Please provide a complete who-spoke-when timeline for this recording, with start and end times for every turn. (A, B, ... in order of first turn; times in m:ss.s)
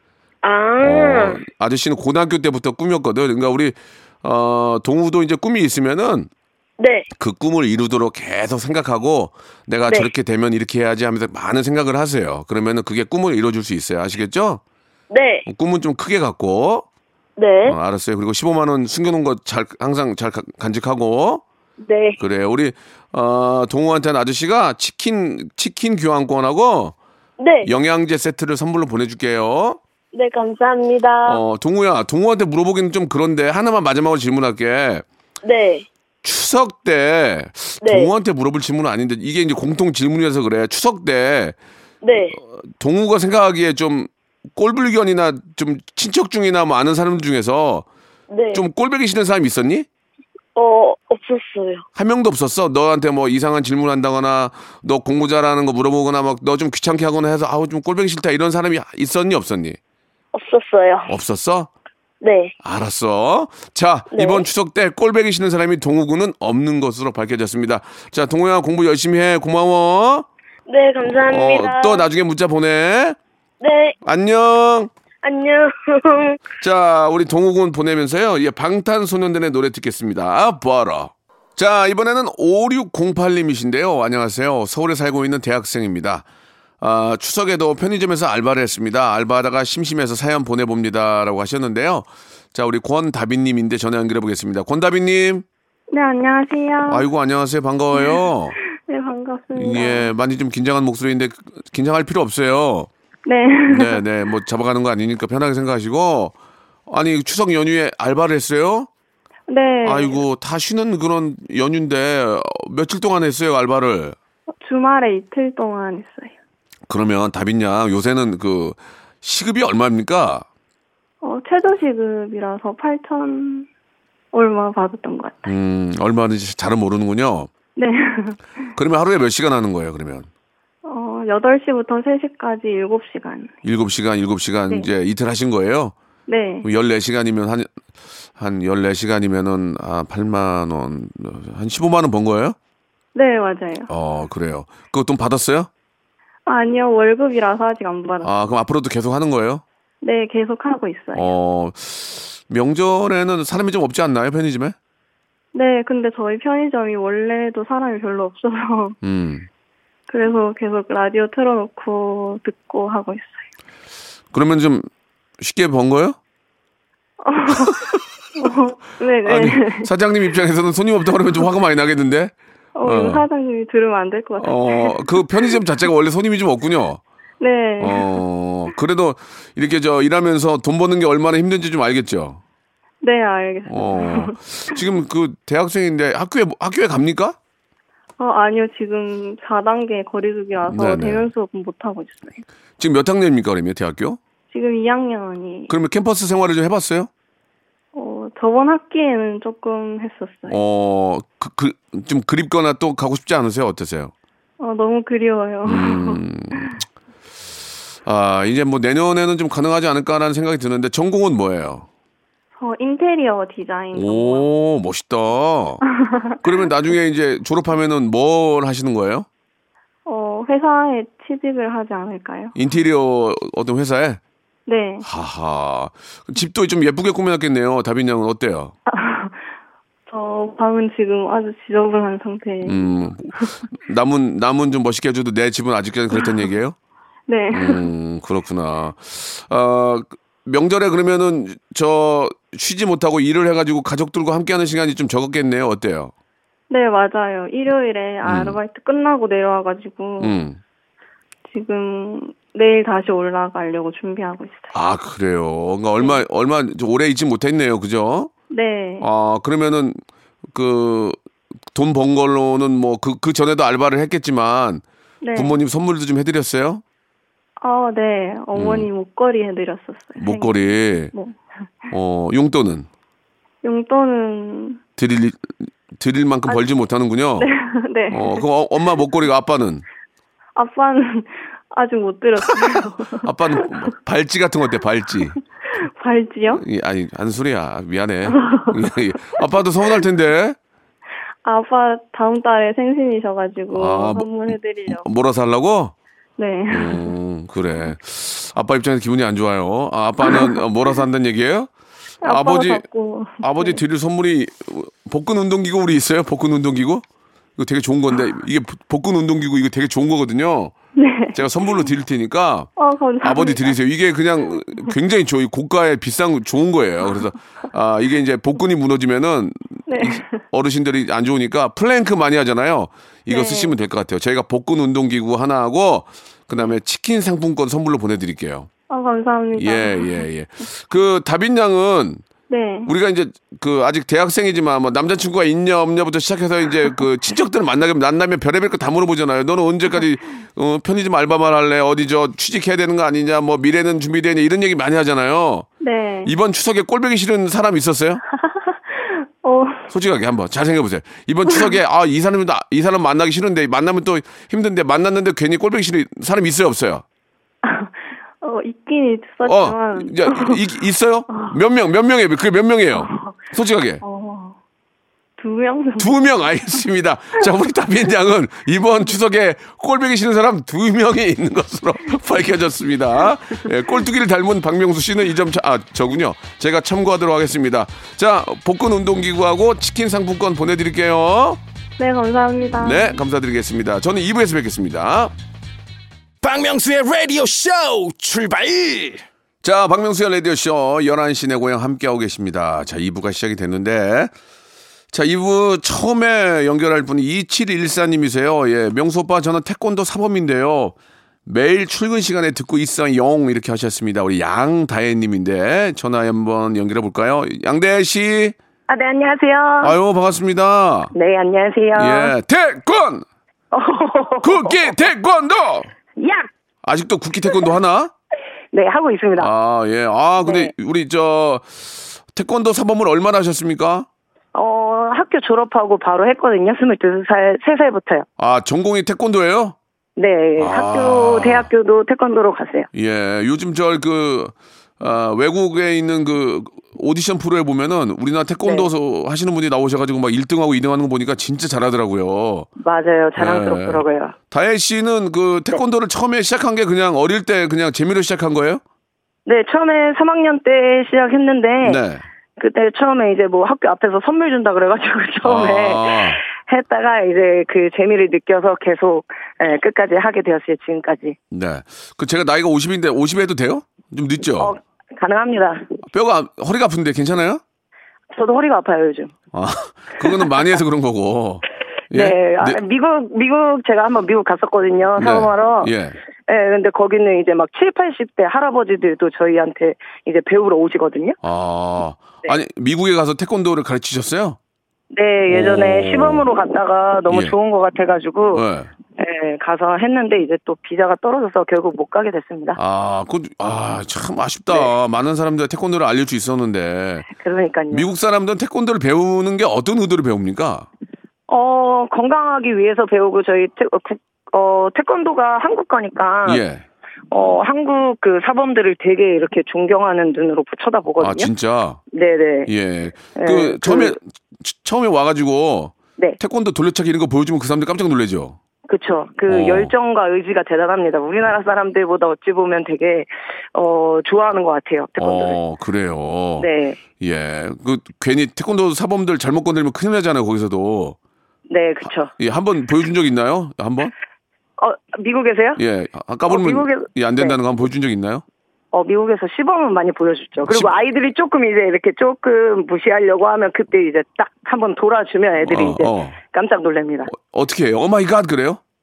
0:00.4-0:01.4 A
0:00.8-0:06.3 B
0:06.8-0:07.1 A
0:07.2-0:14.6 B
0:15.1-0:15.5 A
0:15.5-0:16.9 B
0:17.4-0:17.8 A
0:17.6-0:21.4 B
0:21.8-0:22.2 A
0:22.2-0:27.0 B
0:27.4-0:27.7 A
0:27.6-0:29.8 B
0:30.1-0:31.4 A
0:31.2-0:35.1 B
0:35.4-0:35.9 A
0:36.2-0:41.6 B
0:37.8-0:38.1 A
0:42.0-0:42.4 A
0:42.6-0:47.9 B
0:48.3-0:48.7 A
0:48.5-0:49.9 B
0:50.6-0:51.9 A
0:52.0-0:59.8 B
1:00.3-1:01.2 A
1:01.1-1:01.7 B
1:02.2-1:02.5 A
1:02.6-1:10.3 B
1:04.1-1:04.5 A
1:10.7-1:12.1 A
1:11.0-1:13.2 B
1:13.6-1:14.0 A
1:14.0-1:14.9 B
1:15.2-1:16.4 A
1:16.6-1:26.3 B
1:26.8-1:35.4 B
1:35.9-1:37.1 C
1:36.9-1:38.6 B
1:37.9-1:40.1 C
1:39.6-1:42.9 B
1:43.3-1:44.0 C
1:43.7-1:46.3 B
1:46.9-1:48.9 B
1:49.5-1:50.2 C
1:49.8-1:54.2 B
1:54.6-1:56.3 C
1:56.9-2:00.5 B
2:01.2-2:03.7 C
2:04.3-2:05.5 C
2:05.4-2:07.5 B
2:07.8-2:08.7 C
2:08.8-2:10.3 B
2:10.8-2:13.5 C
2:13.6-2:16.0 B
2:16.3-2:16.7 C
2:16.6-2:17.7 B
2:18.4-2:22.6 B
2:23.2-2:23.9 C
2:23.9-2:25.7 B
2:26.5-2:28.3 C
2:28.2-2:29.6 B
2:30.0-2:31.3 C
2:31.2-2:34.8 B
2:35.5-2:39.0 C
2:39.0-2:39.5 B
2:40.1-2:43.5 C
2:44.3-2:44.9 B
2:45.4-2:46.2 B
2:47.2-2:49.9 C
2:49.2-2:53.2 B
2:52.8-2:55.6 C
2:54.4-2:57.0 B
2:57.4-2:58.2 C
2:57.8-3:02.4 B
3:03.0-3:04.8 C
3:03.7-3:07.4 B
3:08.2-3:12.4 C
3:10.7-3:11.3 B
3:12.8-3:14.2 B
3:14.5-3:15.7 C
3:15.7-3:17.1 B
3:17.9-3:20.6 C
3:20.5-3:24.1 B
3:24.6-3:26.7 C
3:25.6-3:26.8 B
3:28.0-3:31.9 B
3:32.6-3:34.5 C
3:33.9-3:35.8 B
3:36.0-3:36.4 C
3:36.4-3:39.3 B
3:40.1-3:42.6 C
3:42.6-3:44.2 B
3:44.7-3:45.1 C
3:45.0-3:48.7 B
3:48.9-3:49.5 C
3:50.1-3:53.6 C
3:52.6-3:56.8 B
3:56.2-3:56.4 C
3:57.3-3:57.9 C
3:57.5-4:06.1 B
4:06.7-4:10.4 C
4:08.2-4:08.6 B
4:10.2-4:10.6 B
4:11.4-4:14.8 C
4:14.7-4:18.3 B
4:16.0-4:16.2 C
4:18.5-4:19.1 C
4:19.0-4:20.0 B
4:20.5-4:21.2 B
4:21.7-4:26.8 B
4:25.2-4:25.6 C
4:27.6-4:31.9 C
4:28.5-4:28.9 B
4:30.2-4:31.1 B
4:31.9-4:32.9 B
4:33.6-4:34.8 C
4:35.0-4:37.5 B
4:37.4-4:38.5 C
4:38.1-4:39.8 B
4:40.6-4:43.7 C
4:43.2-4:45.4 B
4:45.7-4:46.6 C
4:46.5-4:50.6 B
4:48.3-4:48.8 C
4:51.4-4:55.1 C
4:53.7-4:55.9 B
4:56.4-4:57.1 C
4:56.7-5:01.7 B
5:00.2-5:00.6 C
5:02.2-5:03.8 C
5:02.2-5:02.9 B
5:03.4-5:07.0 B
5:07.6-5:10.7 B
5:11.0-5:11.9 C
5:11.3-5:12.7 B
5:12.8-5:13.8 C
5:13.2-5:28.7 B
5:19.9-5:20.4 C
5:23.3-5:23.8 C
5:28.9-5:30.3 C
5:29.6-5:32.2 B
5:32.5-5:32.9 C
5:32.9-5:45.7 B
5:45.8-5:46.3 C
5:46.2-5:48.2 B
5:48.4-5:49.9 C
5:49.9-5:57.0 B
5:57.6-6:00.6 C
5:59.4-6:04.0 B
6:01.3-6:01.6 C
6:03.0-6:03.4 C
6:04.0-6:04.6 C
6:05.4-6:06.2 C
6:06.0-6:21.6 B
6:22.0-6:23.2 C
6:22.8-6:25.3 B
6:26.4-6:29.2 D
6:29.6-6:34.3 B
6:35.1-6:41.0 B
6:41.5-6:48.6 B
6:48.9-6:50.0 E
6:49.8-6:51.1 B
6:51.1-6:52.3 E
6:52.0-6:53.2 B
6:53.7-6:55.0 E
6:54.4-6:55.9 B
6:56.2-6:56.5 E
6:56.8-6:58.1 B
6:58.7-6:59.5 E
6:59.4-7:04.1 B
7:00.4-7:00.7 E
7:04.5-7:08.3 E
7:08.4-7:09.8 B
7:10.2-7:12.9 E
7:10.6-7:11.7 B
7:12.9-7:22.7 B
7:18.6-7:18.9 E
7:22.8-7:24.4 E
7:23.4-7:28.8 B
7:29.5-7:32.0 E
7:31.8-7:32.2 B
7:32.6-7:41.4 E
7:35.4-7:36.4 B
7:41.5-7:44.8 B
7:44.6-7:46.0 E
7:46.1-7:47.6 B
7:48.3-7:49.3 E
7:49.5-7:52.8 B
7:52.1-7:55.9 E
7:55.2-7:56.2 B
7:56.5-8:01.4 E
8:01.4-8:04.6 B
8:05.1-8:08.6 E
8:05.5-8:06.5 B
8:07.3-8:07.6 B
8:08.5-8:08.9 B
8:09.2-8:12.8 E
8:12.8-8:17.3 B
8:17.3-8:18.1 E
8:17.9-8:20.9 B
8:21.5-8:26.6 E
8:26.4-8:26.8 B
8:27.3-8:31.5 E
8:31.2-8:32.0 B
8:32.1-8:32.7 E
8:32.7-8:38.6 B
8:33.4-8:34.2 E
8:38.9-8:45.6 E
8:39.5-8:39.9 B
8:45.2-8:46.7 B
8:46.6-8:47.0 E
8:47.2-8:51.2 B
8:51.7-8:52.3 E
8:52.4-8:54.1 B
8:54.8-8:55.8 E
8:55.8-8:58.4 B
8:56.5-8:57.6 E
8:58.9-9:07.3 E
9:00.6-9:00.9 B
9:05.6-9:06.4 B
9:07.3-9:08.8 B